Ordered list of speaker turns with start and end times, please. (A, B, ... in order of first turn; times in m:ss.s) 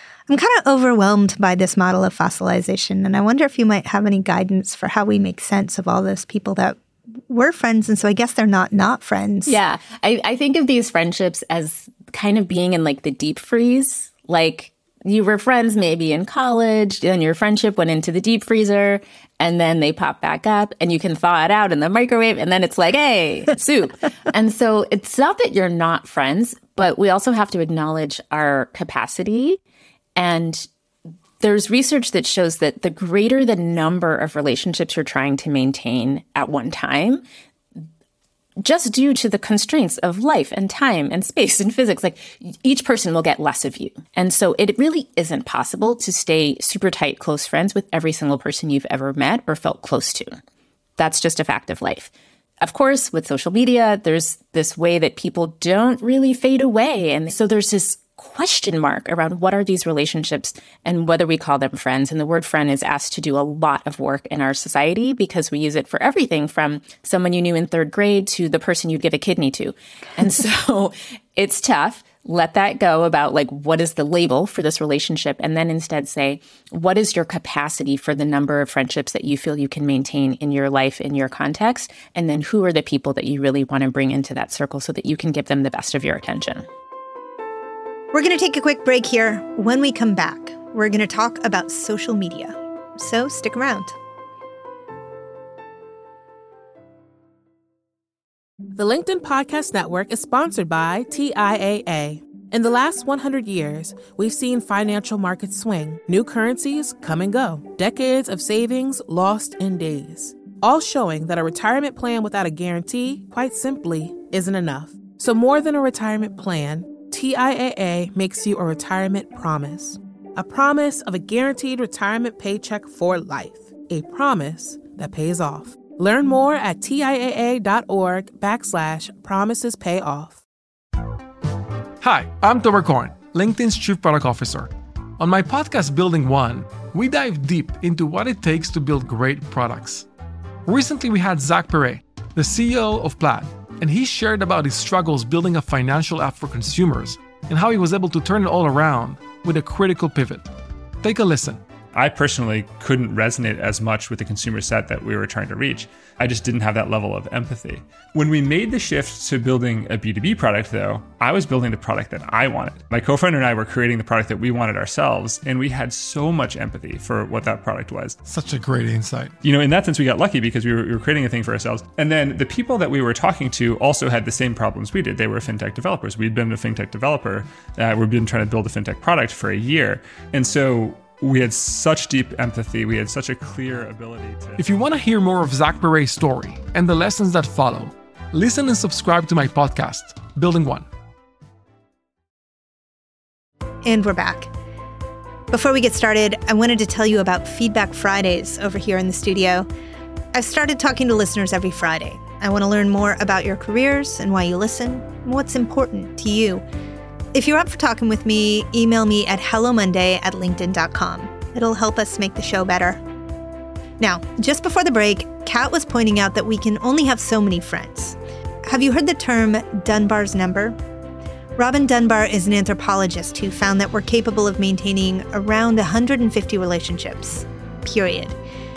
0:00.3-0:09.6 A
0:09.4-0:29.6 B
0:30.2-0:30.7 B
0:31.4-0:37.2 B
0:38.6-0:50.3 B
0:51.0-1:26.6 B
1:28.1-1:34.0 A
1:38.7-2:10.4 C
2:12.0-2:20.0 D
2:20.6-2:30.5 D
2:31.0-2:31.6 D
2:31.9-2:48.2 E
2:48.2-2:49.3 D
2:49.4-3:04.6 E
3:04.6-3:10.8 D
3:13.8-3:14.5 A
3:15.5-3:19.7 A
3:20.3-3:26.6 A
3:27.3-3:33.0 A
3:34.0-3:40.8 A
3:41.6-3:48.4 A